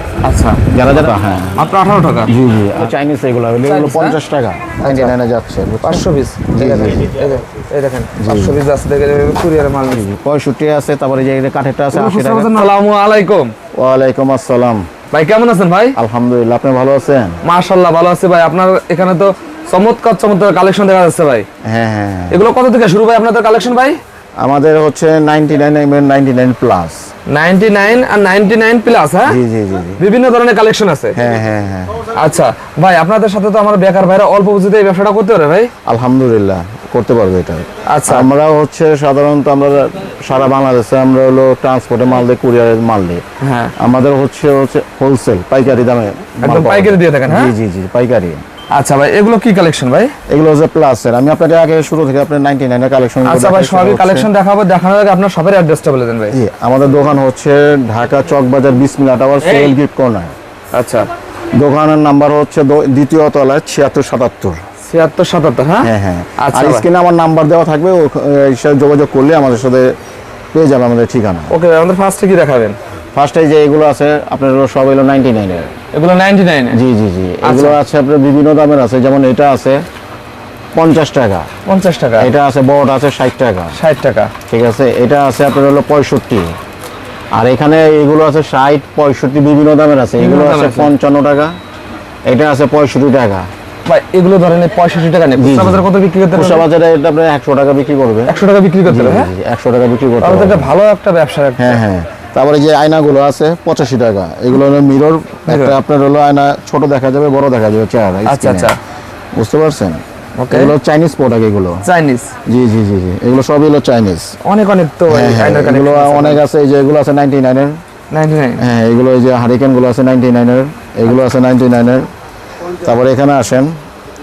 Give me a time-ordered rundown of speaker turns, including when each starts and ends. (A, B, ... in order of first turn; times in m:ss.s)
0:00.2-0:01.0 A
0:00.7-0:01.6 B
0:01.6-0:02.3 A
0:02.3-0:07.2 B
0:03.6-0:04.2 A
0:04.8-0:05.1 A
0:05.8-0:10.0 A
0:08.2-0:08.6 B
0:09.9-0:12.6 B
0:11.9-0:13.5 A
0:13.8-0:14.9 B
0:15.1-0:16.0 A
0:16.0-0:17.4 B
0:17.4-0:21.5 A
0:21.6-0:22.4 B
0:22.3-0:24.0 A
0:24.4-0:27.0 B
0:27.3-0:29.4 A
0:29.2-0:30.0 B
0:30.0-0:31.2 A
0:31.2-0:32.0 B
0:32.1-0:35.7 A
0:35.9-0:43.2 B
0:37.9-0:38.3 A
0:43.4-0:43.8 A
0:43.8-0:48.4 B
0:46.4-0:47.6 A
0:48.7-0:50.2 A
0:50.3-0:54.3 B
0:53.2-0:56.4 A
0:56.3-1:00.3 B
0:59.4-0:59.7 A
1:00.7-1:01.1 A
1:01.6-1:04.6 B
1:04.9-1:06.9 A
1:05.8-1:09.9 B
1:10.5-1:11.5 B
1:11.5-1:12.8 A
1:13.2-1:15.7 B
1:15.9-1:16.8 A
1:16.7-1:19.8 B
1:17.4-1:17.8 A
1:20.8-1:21.5 B
1:21.7-1:22.3 A
1:22.2-1:23.8 B
1:23.8-1:24.3 A
1:24.5-1:26.5 B
1:27.4-1:31.5 B
1:30.2-1:30.9 A
1:32.3-1:33.5 B
1:33.8-1:36.6 A
1:35.4-1:38.3 B
1:38.3-1:39.3 A
1:38.8-1:40.7 B
1:40.2-1:41.8 A
1:41.6-1:48.7 B
1:45.5-1:45.8 A
1:48.3-1:48.8 A
1:49.4-1:51.8 B
1:50.4-1:50.7 A
1:51.8-1:52.3 A
1:52.5-1:54.4 B
1:54.4-1:56.4 A
1:55.1-1:57.8 B
1:58.1-1:58.6 A
1:58.6-2:02.1 B
2:02.8-2:03.7 B